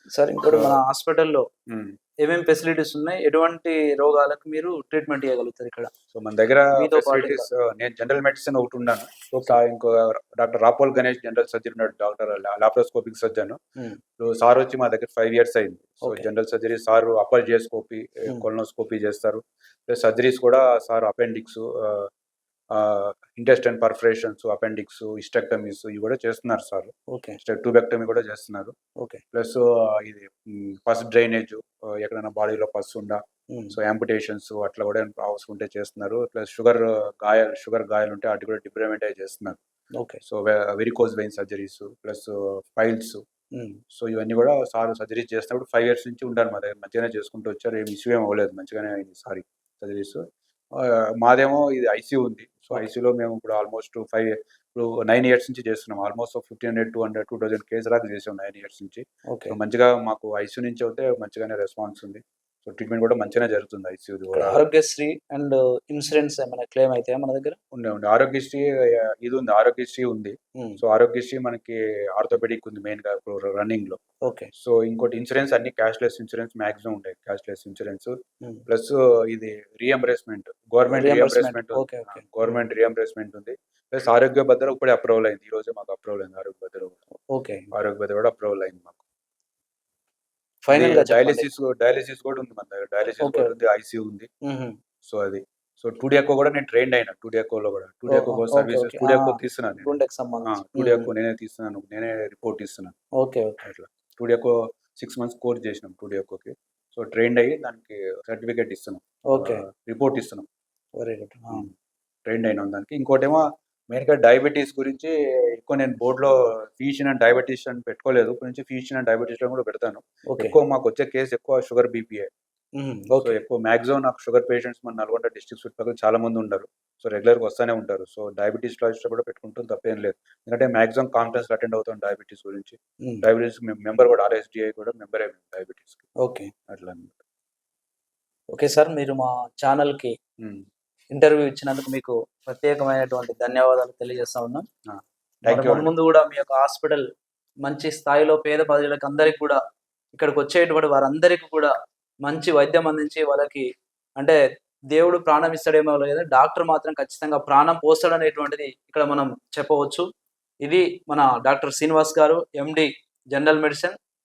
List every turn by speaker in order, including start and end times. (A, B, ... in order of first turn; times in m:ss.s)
0:00.2-0:01.5 A
0:00.5-0:00.8 B
0:02.2-0:05.9 A
0:06.1-0:13.6 B
0:06.7-0:07.5 A
0:09.3-0:09.6 A
0:14.2-0:22.1 B
0:22.7-0:28.7 B
0:27.1-0:27.4 A
0:29.3-0:39.6 B
0:40.0-0:40.2 A
0:40.2-0:43.2 B
0:44.0-0:50.2 B
0:50.8-1:04.7 B
0:59.3-0:59.6 A
1:04.3-1:07.6 A
1:07.7-1:14.0 B
1:14.2-1:14.5 A
1:14.6-1:18.2 B
1:18.7-1:27.0 B
1:20.9-1:22.6 A
1:27.3-1:27.7 A
1:27.7-1:29.0 B
1:30.6-1:31.5 A
1:30.7-1:34.3 B
1:33.2-1:33.5 A
1:34.4-1:34.7 A
1:35.0-1:42.9 B
1:38.1-1:41.1 A
1:43.2-1:43.6 A
1:43.6-1:50.5 B
1:49.3-1:49.6 A
1:51.0-1:51.7 A
1:52.3-2:02.3 B
2:00.3-2:00.6 A
2:02.8-2:03.4 A
2:03.2-2:16.0 B
2:16.2-2:16.5 A
2:16.7-2:17.2 B
2:18.5-2:20.2 A
2:21.1-2:24.7 A
2:24.9-2:25.9 B
2:25.5-2:27.1 A
2:27.6-2:29.6 A
2:30.1-2:31.7 A
2:32.2-2:33.7 A
2:34.9-2:40.1 A
2:40.6-2:44.0 A